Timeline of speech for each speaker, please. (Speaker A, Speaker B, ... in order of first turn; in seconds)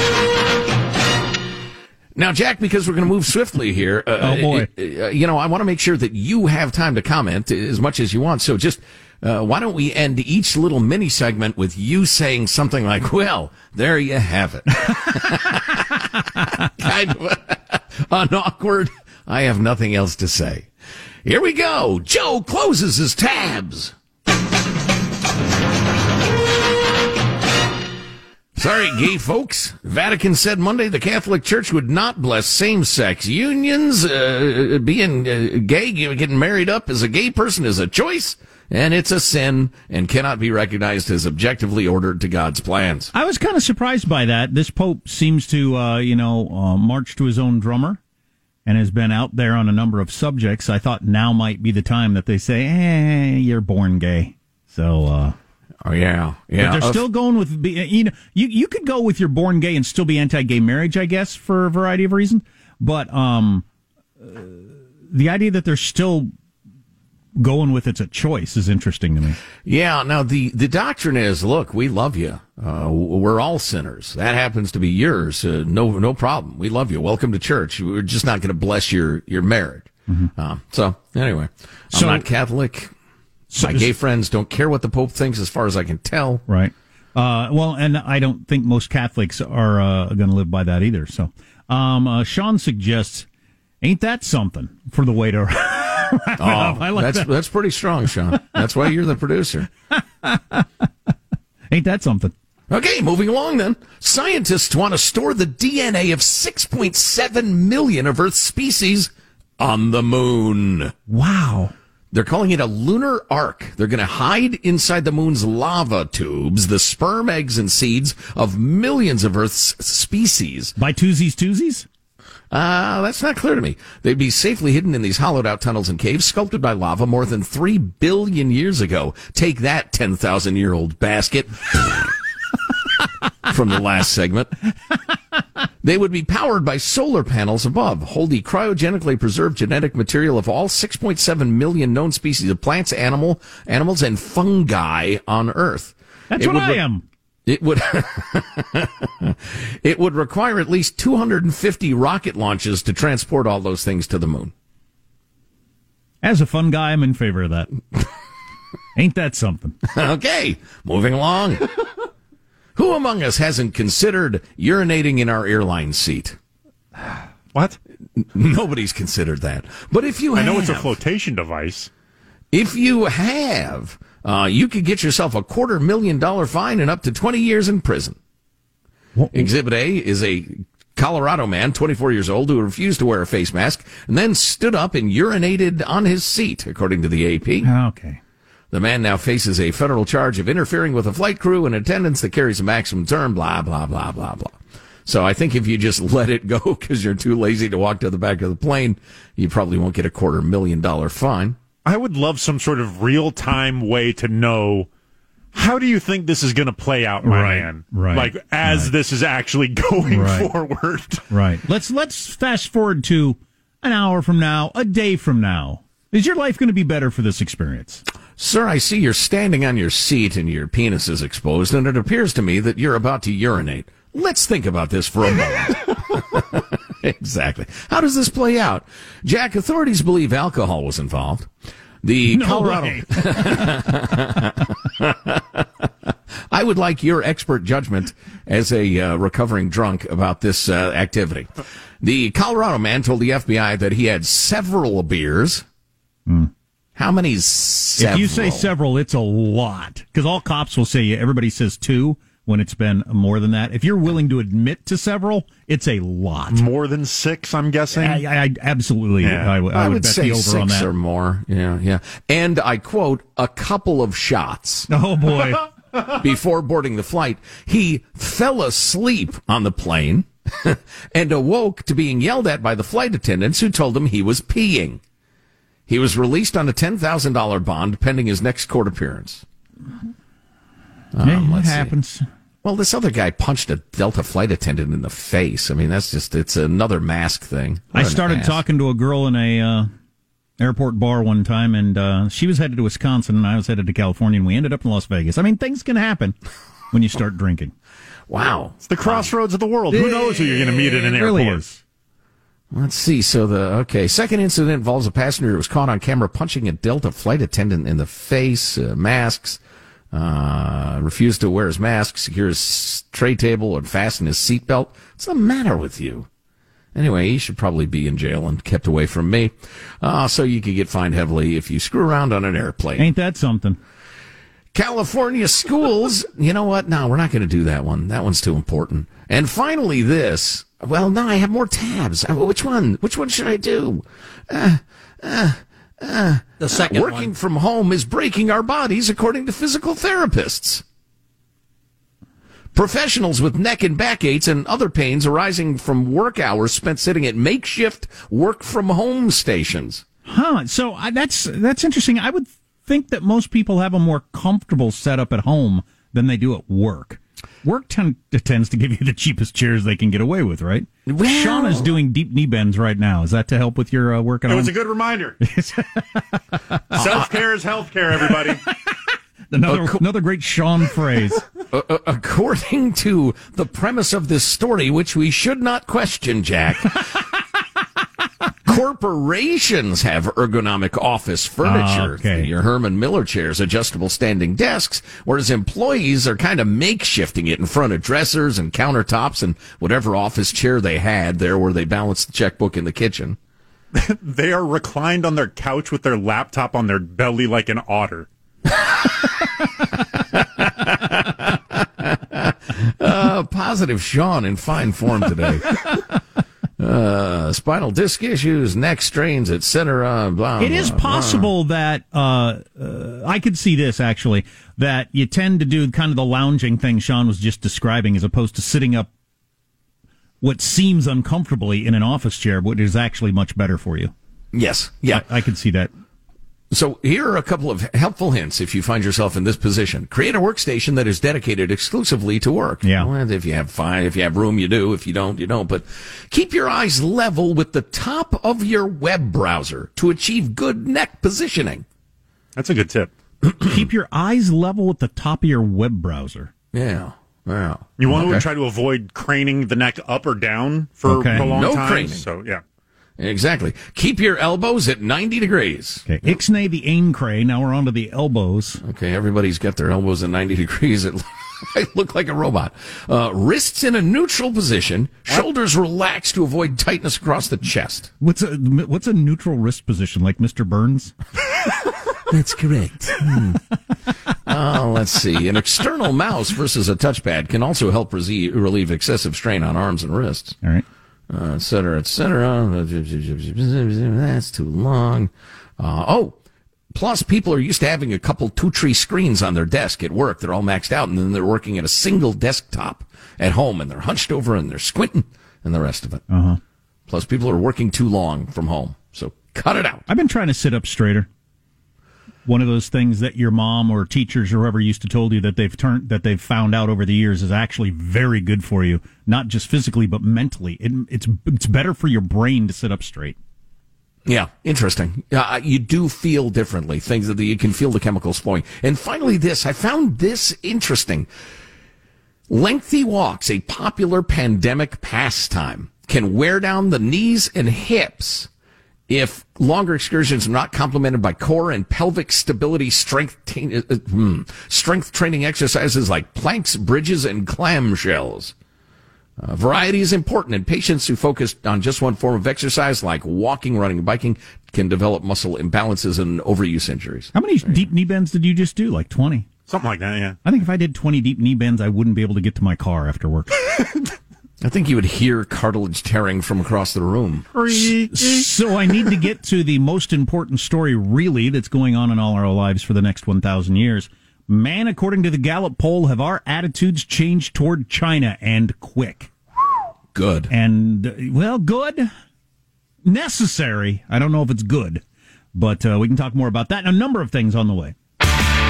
Speaker A: 2.1-20.7, 21.2-23.9, 28.6-43.1, 55.8-57.1, 69.6-82.9, 83.6-86.4, 96.4-99.7, 102.7-110.9, 112.1-120.8, 122.5-132.1, 133.5-134.5, 135.8-146.8, 147.5-154.5, 159.9-161.7, 162.8-166.4, 168.2-171.0, 172.5-178.2, 179.3-187.7, 188.7-201.6, 218.4-231.5, 232.0-245.7, 247.0-248.7, 259.7-264.9, 266.1-275.0, 275.9-279.4, 281.1-281.9, 282.6-288.6, 298.3-299.3, 302.7-309.6, 310.1-316.3, 316.9-323.1, 324.7-340.8, 342.7-350.0, 361.1-361.9, 369.6-370.1, 371.7-377.1, 378.6-393.4, 400.6-405.8, 406.8-411.5, 424.5-425.3, 426.7-441.9, 446.7-448.5, 451.3-452.3, 453.2-456.4, 458.8-468.1, 472.3-473.6, 474.5-480.6, 481.3-486.4, 486.9-496.2, 497.1-500.1, 514.3-521.3, 522.5-528.5, 529.1-538.5, 539.4-547.8, 554.6-558.4, 570.1-570.5
Speaker B: 4.2-4.7, 43.1-48.0, 48.6-55.4, 56.6-63.6, 64.2-66.3, 67.4-69.4, 81.9-82.2, 83.5-83.9, 86.5-93.3, 93.8-97.3, 99.9-100.7, 101.7-102.3, 111.1-111.7, 120.8-121.9, 146.3-147.1, 156.2-157.7, 159.0-159.8, 179.2-179.5, 187.6-188.2, 207.2-208.9, 210.1-210.5, 211.3-218.0, 232.3-233.9, 248.0-256.6, 258.0-260.9, 264.9-265.7, 281.2-282.3, 287.9-289.9, 290.6-296.4, 296.9-297.7, 299.9-301.8, 323.0-323.8, 350.3-364.8, 365.4-367.3, 368.3-371.4, 381.6-382.5, 410.6-419.1, 420.4-424.1, 425.1-425.9, 432.8-433.1, 443.6-446.5, 451.1-451.5, 456.1-458.8, 468.2-471.1, 496.3-496.6, 500.1-501.3, 502.4-513.4, 547.3-549.5, 550.5-553.5, 557.5-569.3, 570.5-572.1, 573.0-575.0, 575.5-578.0
Speaker C: 170.3-171.9, 201.8-204.9, 205.5-211.3, 256.5-258.2, 259.2-259.6, 298.8-301.6, 364.5-365.4, 366.9-368.6, 393.9-398.3, 442.6-443.1, 448.0-452.6, 549.7-550.4